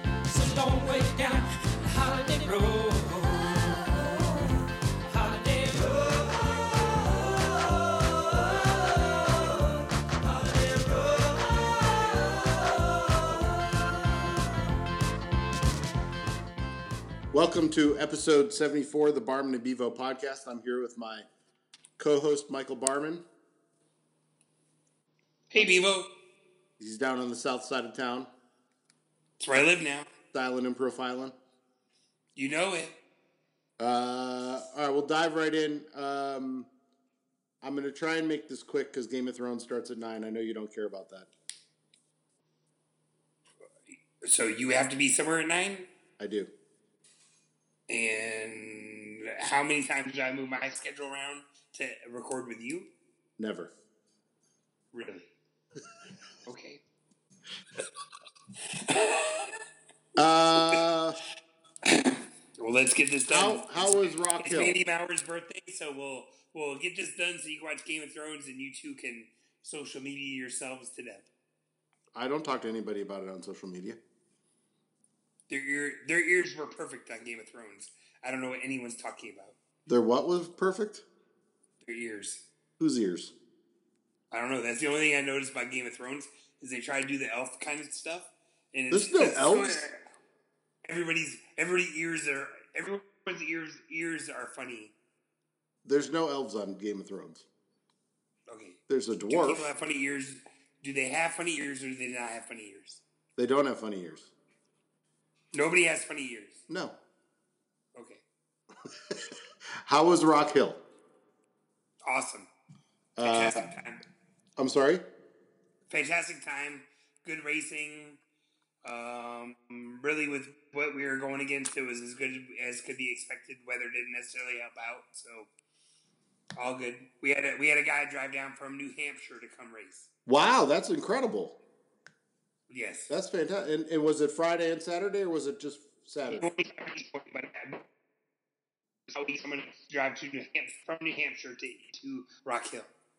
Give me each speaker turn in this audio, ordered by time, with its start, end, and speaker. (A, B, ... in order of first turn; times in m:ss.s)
0:00.3-0:09.6 A
0:10.2-0:12.1 A
0:17.3-0:21.3 B
0:22.0-0:23.2 B
0:25.5-0:26.1 C
0:26.8-0:28.3 B
0:29.4-0:30.1 C
0:30.3-0:31.4 B
0:32.4-0:33.0 C
0:33.8-0:36.7 B
0:37.6-0:41.3 B
0:44.2-0:45.9 C
0:46.2-0:46.5 B
0:47.9-0:52.9 C
0:53.4-0:53.7 B
0:54.9-0:55.3 C
0:56.5-0:56.8 C
0:58.7-0:59.6 C
1:00.2-1:01.2 B
1:01.8-1:11.3 C
1:03.3-1:04.8 B
1:12.1-1:14.0 B
1:15.5-1:19.6 C
1:19.9-1:21.0 B
1:21.8-1:22.4 C
1:22.8-1:23.4 B
1:24.3-1:30.0 C
1:28.9-1:29.9 B
1:30.8-1:34.9 C
1:35.8-1:37.5 B
1:38.5-1:43.0 C
1:38.9-1:39.7 B
1:43.4-1:44.3 B
1:45.5-1:46.6 C
1:46.7-1:47.0 B
1:48.0-1:48.2 C
1:48.9-1:49.3 B
1:49.8-1:50.8 B
1:52.0-1:52.5 C
1:53.2-1:53.7 B
1:53.2-1:54.0 C
1:54.6-1:55.0 B
1:55.9-1:58.2 C
1:58.8-2:05.5 C
2:06.6-2:10.1 C
2:10.3-2:11.6 B
2:12.7-2:13.1 C
2:13.1-2:16.5 B
2:16.3-2:17.8 C
2:19.1-2:22.9 C